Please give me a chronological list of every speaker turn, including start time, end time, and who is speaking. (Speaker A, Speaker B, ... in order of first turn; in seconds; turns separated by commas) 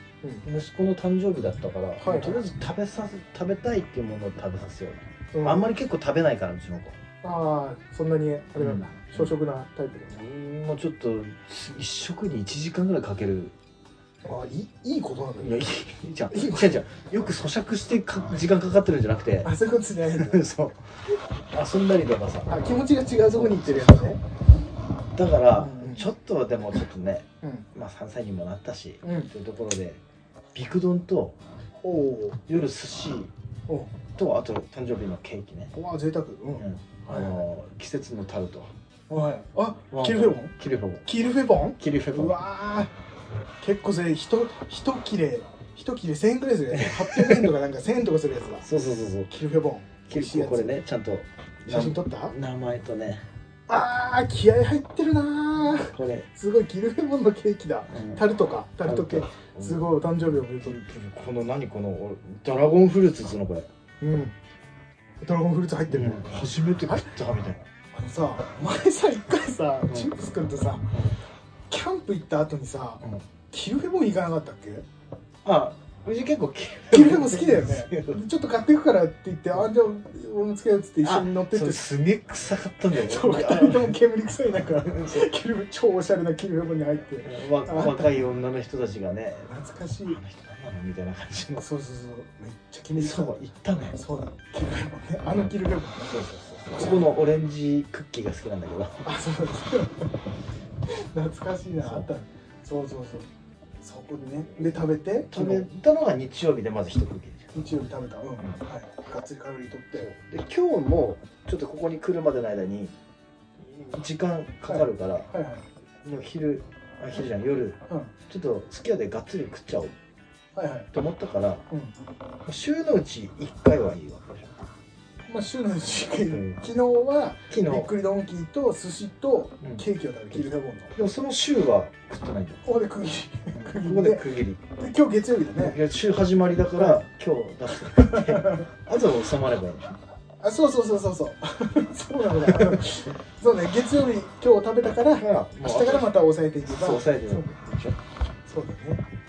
Speaker A: 0.4-7.0, Speaker B: 2.0-2.5, Speaker B: 5.3-5.7, Speaker B: 7.2-10.2, Speaker A: 8.6-9.3, Speaker A: 10.1-13.5, Speaker B: 14.2-15.7, Speaker A: 15.4-19.5, Speaker B: 16.3-16.8, Speaker B: 19.4-20.4, Speaker A: 20.1-22.5, Speaker B: 22.5-24.2, Speaker A: 23.3-24.1, Speaker A: 25.1-30.0, Speaker B: 25.6-26.1, Speaker B: 27.4-27.7, Speaker B: 29.0-29.3, Speaker A: 30.5-31.4, Speaker B: 31.8-32.4, Speaker A: 32.5-33.3, Speaker B: 33.7-33.9, Speaker A: 34.1-35.7, Speaker B: 35.7-37.4, Speaker A: 36.6-38.7, Speaker B: 39.1-40.5, Speaker A: 39.9-41.1, Speaker B: 41.0-42.9, Speaker A: 41.8-42.4, Speaker B: 43.6-48.7, Speaker A: 46.7-47.5, Speaker A: 48.6-49.3, Speaker B: 49.3-50.8, Speaker A: 50.1-53.2, Speaker B: 51.7-52.4, Speaker B: 53.7-60.8, Speaker A: 55.6-56.2, Speaker A: 57.9-58.2, Speaker A: 58.8-63.7, Speaker B: 64.0-64.3, Speaker B: 65.2-66.4, Speaker A: 65.9-67.6, Speaker B: 67.9-71.0, Speaker B: 71.7-74.8, Speaker A: 75.4-78.2, Speaker B: 76.9-81.9, Speaker A: 81.0-84.0, Speaker B: 82.9-88.1, Speaker A: 84.8-85.3, Speaker A: 87.2-89.5, Speaker B: 89.5-90.2, Speaker A: 90.1-91.6, Speaker B: 91.5-97.1, Speaker A: 93.0-94.0, Speaker A: 96.1-99.0, Speaker B: 99.0-100.1, Speaker B: 100.9-103.3, Speaker A: 101.8-102.1, Speaker B: 103.8-105.7, Speaker A: 105.3-107.5, Speaker B: 107.5-110.1, Speaker A: 110.0-112.9, Speaker A: 113.6-115.3, Speaker B: 114.7-115.7, Speaker A: 116.0-120.0, Speaker B: 117.9-118.1, Speaker B: 120.5-120.9, Speaker A: 120.9-121.6, Speaker B: 121.7-121.9, Speaker A: 122.4-124.6, Speaker B: 125.3-130.9, Speaker A: 126.3-126.6, Speaker A: 127.5-127.9, Speaker A: 129.6-132.6, Speaker B: 132.6-135.8, Speaker A: 133.5-134.6, Speaker A: 135.5-140.0, Speaker B: 137.9-138.7, Speaker B: 140.4-147.6, Speaker A: 142.3-142.9, Speaker A: 145.1-148.0, Speaker B: 148.4-149.0